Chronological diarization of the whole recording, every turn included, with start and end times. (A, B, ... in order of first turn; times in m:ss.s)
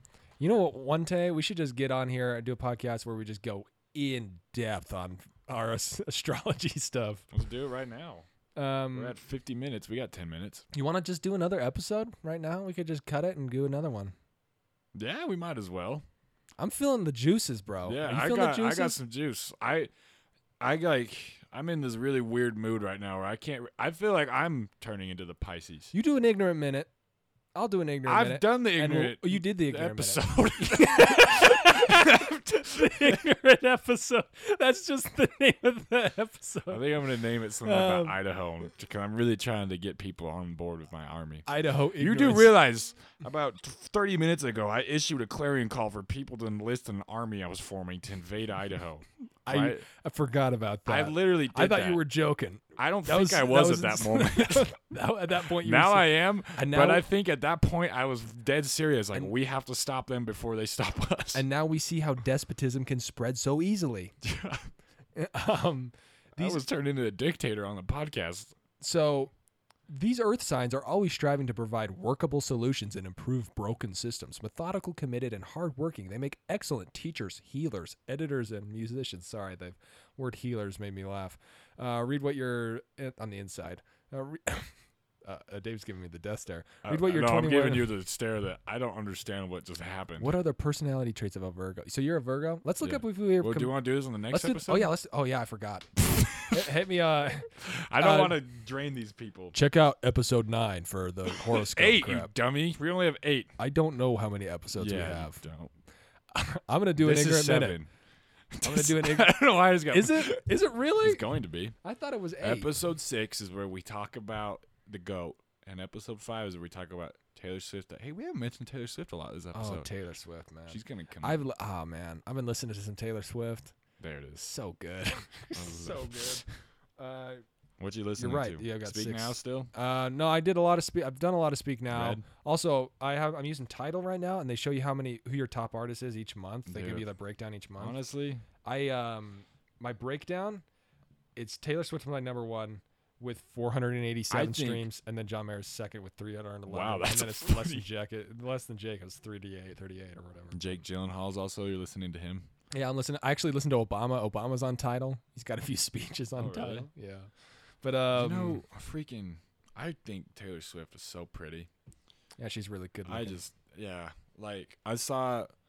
0:00.4-0:07.3 A
0:07.3-0:08.3 B
0:08.6-0:09.1 A
0:08.9-0:10.6 B
0:10.7-0:14.1 A
0:14.9-0:16.0 B
0:16.6-0:19.0 A
0:17.8-0:19.9 B
0:20.6-0:25.9 B
0:25.9-0:26.9 A
0:27.5-0:37.0 A
0:28.0-0:33.2 B
0:36.7-0:49.8 B
0:37.6-0:38.2 A
0:41.4-0:42.5 A
0:49.4-0:57.1 A
0:50.8-0:52.0 B
0:52.8-0:54.7 B
0:55.6-1:01.4 B
1:01.3-1:04.1 A
1:04.2-1:04.7 B
1:05.2-1:06.6 A
1:06.4-1:08.5 B
1:08.8-1:09.3 A
1:09.9-1:27.9 A
1:26.8-1:30.4 B
1:30.2-1:38.4 A
1:32.8-1:34.9 B
1:36.0-1:36.7 B
1:37.6-1:39.6 B
1:39.5-1:42.3 A
1:41.3-1:43.5 B
1:43.6-1:45.4 A
1:44.8-1:45.7 B
1:46.3-1:47.8 A
1:47.0-1:47.9 B
1:48.5-1:51.7 B
1:48.6-1:51.2 A
1:51.8-1:52.7 A
1:52.4-1:59.9 B
1:59.5-2:03.7 A
2:00.7-2:01.4 B
2:04.0-2:04.5 B
2:04.4-2:06.5 A
2:05.5-2:06.5 B
2:07.0-2:07.4 A
2:07.8-2:09.7 B
2:08.2-2:18.0 A
2:11.9-2:12.2 B
2:16.7-2:17.0 B
2:17.8-2:18.4 B
2:18.6-2:20.6 A
2:21.4-2:30.6 A
2:24.3-2:24.9 B
2:26.7-2:27.8 B
2:30.5-2:32.5 B
2:32.7-2:38.6 A
2:36.4-2:36.9 B
2:38.1-2:41.7 B
2:42.4-2:43.4 A
2:43.0-2:45.5 B